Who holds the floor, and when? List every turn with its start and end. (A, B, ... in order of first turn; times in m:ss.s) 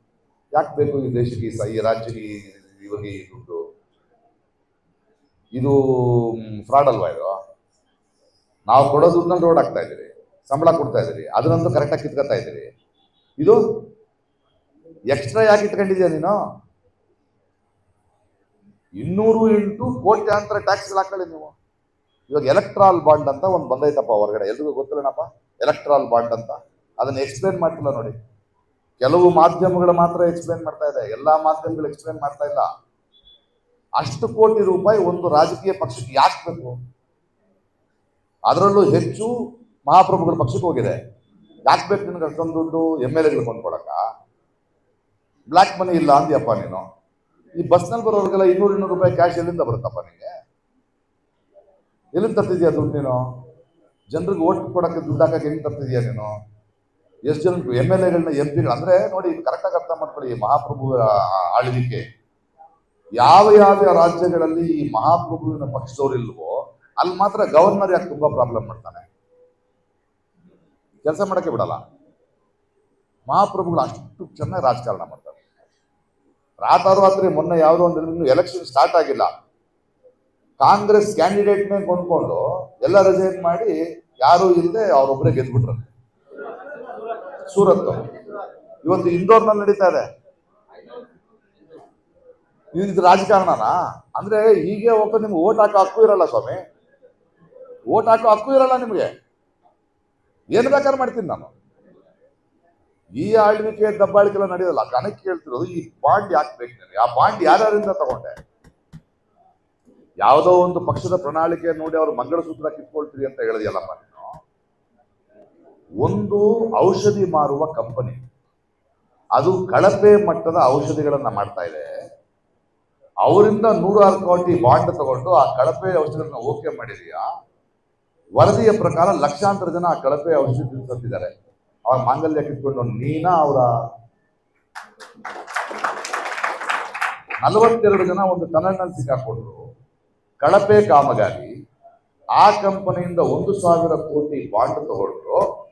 0:00.6-0:03.6 A
0:05.6-0:07.3 A
0:08.7-0:12.7 A
0:15.1-0:16.4 A
0:19.0-0:21.5 A
0:22.3-0:28.2 A
0:29.0-0:32.7 A
0:34.0-0:36.8 A
0:38.5-0:39.3 A
0:39.9-0:41.0 A
0:41.7-0:44.0 A
0:45.5-0:46.8 A
0:47.6-0:50.3 A
0:52.2-0:53.2 A
0:54.1-0:56.3 A
0:57.3-1:02.0 A
1:03.2-1:09.0 A
1:11.0-1:11.8 A
1:13.3-1:15.4 A
1:16.6-1:19.3 A
1:20.6-1:25.9 A
1:27.5-1:28.1 A
1:28.8-1:30.0 A
1:32.8-1:36.6 A
1:37.9-1:39.1 A
1:40.5-1:41.5 A
1:43.2-1:48.3 A
1:50.2-1:54.3 A
1:56.0-1:58.2 A
1:59.4-2:01.9 A
2:03.2-2:07.2 A
2:08.4-2:11.3 A
2:11.9-2:13.7 A
2:17.4-2:19.6 A
2:20.4-2:21.5 A
2:22.4-2:25.4 A